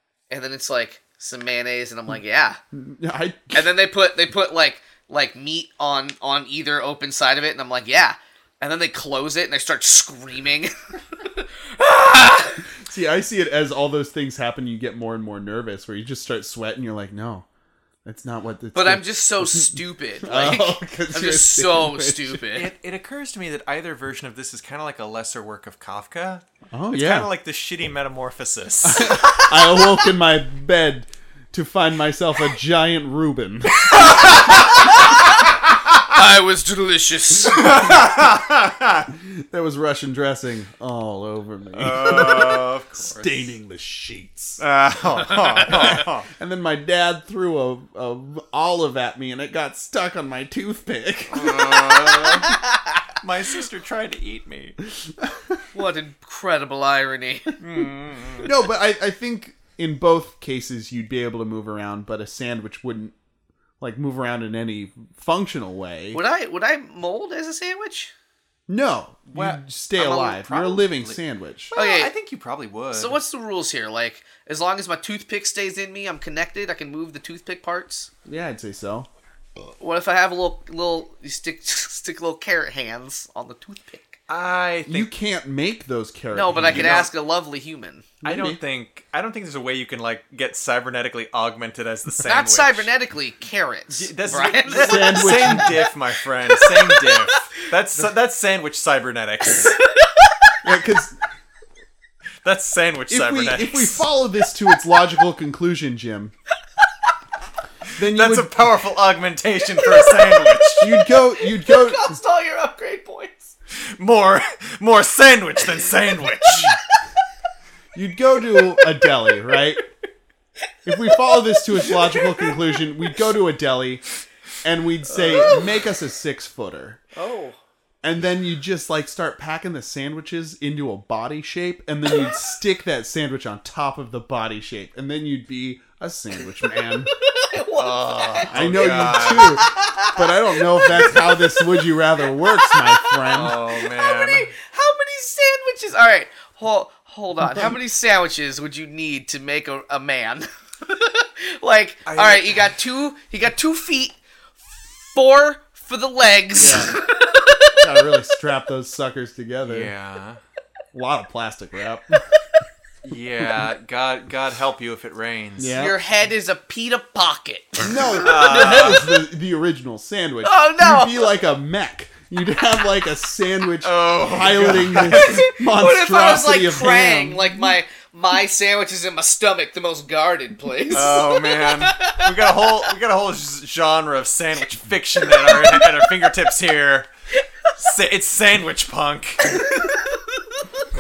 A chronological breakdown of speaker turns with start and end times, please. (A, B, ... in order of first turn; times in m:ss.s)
0:00.3-0:02.6 A
0:02.7-0:03.7 B
0:03.5-0:12.7 A
0:12.8-0:17.5 B
0:18.0-0:22.4 B
0:18.7-0:22.7 A
0:22.5-0:29.5 C
0:26.7-0:27.3 B
0:28.8-0:34.6 B
0:34.0-0:34.9 C
0:34.8-0:35.4 A
0:36.1-0:38.0 A
0:37.5-0:39.1 C
0:39.1-0:44.6 B
0:41.7-0:43.5 C
0:44.6-0:46.3 C
0:45.7-0:52.1 B
0:51.3-0:52.6 C
0:52.2-0:52.7 A
0:53.2-0:54.8 C
0:55.1-0:55.6 B
0:55.7-0:57.6 A
0:57.6-0:58.5 C
0:58.4-1:03.2 B
1:03.8-1:06.2 B
1:06.1-1:08.1 A
1:08.7-1:11.7 B
1:09.3-1:11.2 C
1:10.1-1:10.7 A
1:11.7-1:13.2 C
1:11.8-1:12.1 A
1:12.9-1:18.1 A
1:18.2-1:19.1 B
1:19.8-1:24.2 A
1:24.3-1:25.1 C
1:24.9-1:27.1 B
1:26.3-1:28.2 A
1:26.5-1:27.1 C
1:28.2-1:32.9 C
1:28.2-1:28.6 B
1:32.2-1:35.8 A
1:33.9-1:39.8 C
1:34.8-1:35.8 B
1:36.5-1:37.4 A
1:40.1-1:40.5 A
1:40.6-1:41.2 B
1:42.4-1:44.1 C
1:43.1-1:46.3 B
1:48.0-1:48.5 B
1:48.0-1:50.9 C
1:49.8-1:53.5 A
1:50.8-1:52.2 B
1:54.0-1:56.8 C
1:56.5-1:57.0 A
1:58.0-1:59.8 B
1:58.8-1:59.0 A
2:00.9-2:04.0 B
2:00.9-2:02.8 A
2:04.6-2:07.0 B
2:05.1-2:05.8 A
2:07.2-2:07.6 A
2:08.0-2:17.1 B
2:16.7-2:37.8 A
2:17.7-2:19.6 C
2:18.5-2:23.6 B
2:23.3-2:24.5 C
2:32.1-2:32.7 C
2:36.6-2:37.0 B
2:37.8-2:39.9 B
2:39.6-2:40.4 C
2:40.9-2:42.2 B
2:43.0-2:45.9 C
2:45.6-2:46.0 B
2:45.8-2:49.1 A
2:47.8-2:57.6 B
2:48.2-2:49.0 C
2:50.4-2:51.3 A
2:53.8-2:55.5 C
2:55.1-3:02.7 A
3:00.9-3:07.1 C
3:05.4-3:06.0 A
3:07.8-3:09.7 C
3:09.6-3:10.6 A